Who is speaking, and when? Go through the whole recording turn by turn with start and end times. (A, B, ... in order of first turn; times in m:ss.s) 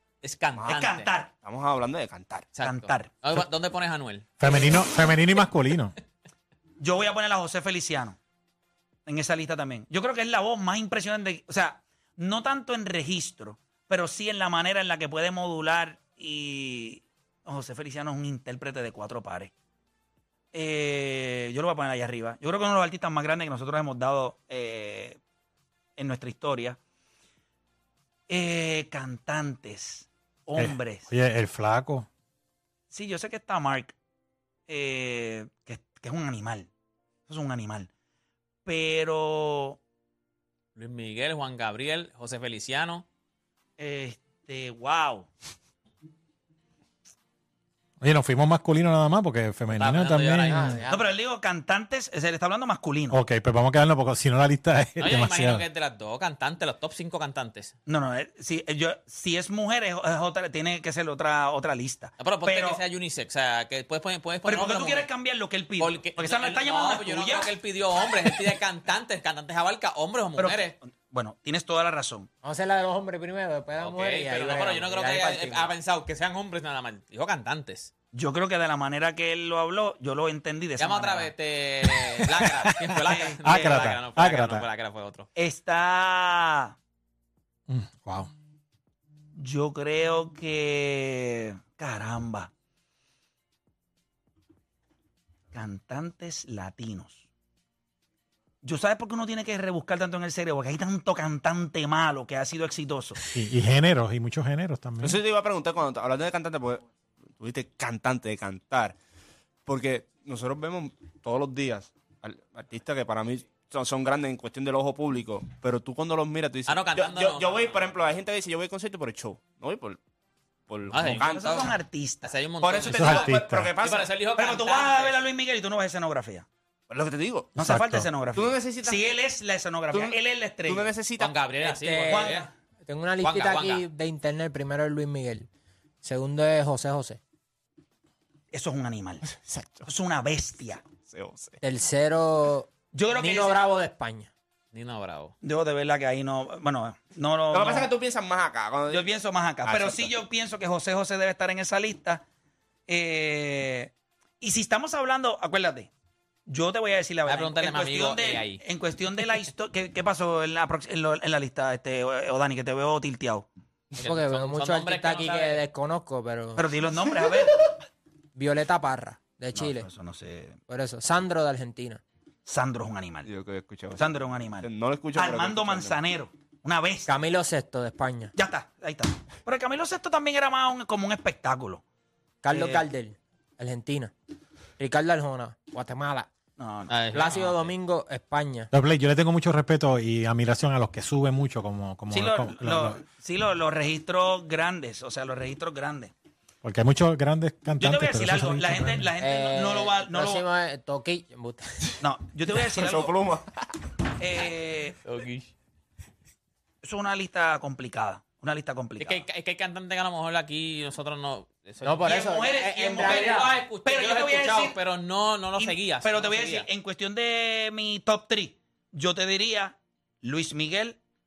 0:00.2-0:01.1 A
0:00.5-0:00.8 B
0:00.7-0:01.3 C
0:01.4-0:02.5 B
0:02.6-0:05.1 A
0:02.6-0:03.1 C
0:04.4-0:05.9 D
0:06.8-0:08.2 C
0:09.0-0:19.5 C
0:20.5-0:25.2 C
0:26.0-0:26.8 C
0:28.3-0:31.0 C
0:30.6-0:32.1 D
0:32.9-0:33.9 C
0:34.7-0:36.7 C
0:37.3-0:37.9 C
0:38.6-0:39.8 C
0:40.8-0:43.0 A
0:43.8-0:45.3 C
0:48.0-0:50.8 D
0:49.7-0:50.8 A
0:50.5-0:51.1 E
0:50.9-0:53.2 C
0:53.1-0:55.6 D
0:55.0-0:57.7 A
0:57.9-1:02.8 C
1:02.2-1:05.1 A
1:04.4-1:07.5 C
1:05.8-1:10.7 A
1:10.4-1:12.3 C
1:12.4-1:15.7 E
1:13.8-1:17.9 A
1:18.1-1:21.3 C
1:20.8-1:25.3 A
1:21.9-1:24.6 D
1:23.0-1:23.7 C
1:25.4-1:26.7 C
1:27.7-1:28.3 D
1:29.4-1:32.5 C
1:35.5-1:37.2 C
1:38.6-1:43.2 C
1:43.3-1:45.2 D
1:45.0-1:46.8 B
1:47.4-1:48.9 B
1:49.6-2:00.0 B
1:56.7-1:57.8 A
2:00.7-2:01.7 B
2:00.9-2:05.2 A
2:01.0-2:02.3 C
2:02.6-2:04.2 B
2:02.9-2:03.7 D
2:04.4-2:06.4 C
2:06.9-2:07.6 B
2:07.6-2:08.1 D
2:07.6-2:10.9 C
2:08.3-2:09.0 B
2:09.9-2:11.4 B
2:11.2-2:12.5 A
2:11.6-2:15.5 E
2:12.1-2:12.5 C
2:13.2-2:13.8 A
2:16.0-2:17.2 E
2:18.5-2:19.2 C
2:19.3-2:19.9 B
2:19.8-2:20.8 C
2:21.0-2:21.6 B
2:21.6-2:24.3 E
2:22.9-2:23.6 C
2:24.7-2:25.3 A
2:25.4-2:27.9 C
2:27.5-2:29.1 B
2:28.9-2:32.2 C
2:29.6-2:30.1 B
2:32.9-2:35.9 C
2:36.5-2:43.5 C
2:37.2-2:38.6 A
2:44.0-2:45.6 A
2:44.0-2:46.6 E
2:46.6-2:47.6 C
2:48.3-2:49.9 E
2:49.5-2:50.6 C
2:50.7-2:52.0 E
2:52.4-2:53.3 C
2:53.2-2:54.0 B
2:54.0-2:57.1 C
2:54.6-2:56.0 B
2:57.1-2:58.3 E
2:58.4-3:01.8 C
3:02.4-3:04.1 E
3:02.5-3:02.8 C
3:04.8-3:06.3 E
3:06.6-3:06.9 C
3:06.9-3:07.7 A
3:07.1-3:08.7 E
3:08.7-3:13.0 D
3:12.1-3:16.1 C
3:16.6-3:19.1 D
3:17.8-3:20.4 C
3:19.2-3:21.9 E
3:22.0-3:23.1 C
3:22.7-3:23.7 B
3:24.2-3:25.0 C
3:25.0-3:25.5 A
3:26.8-3:29.2 C
3:29.0-3:32.3 A
3:31.8-3:33.5 E
3:32.0-3:34.8 C
3:33.0-3:36.7 A
3:35.6-3:41.0 C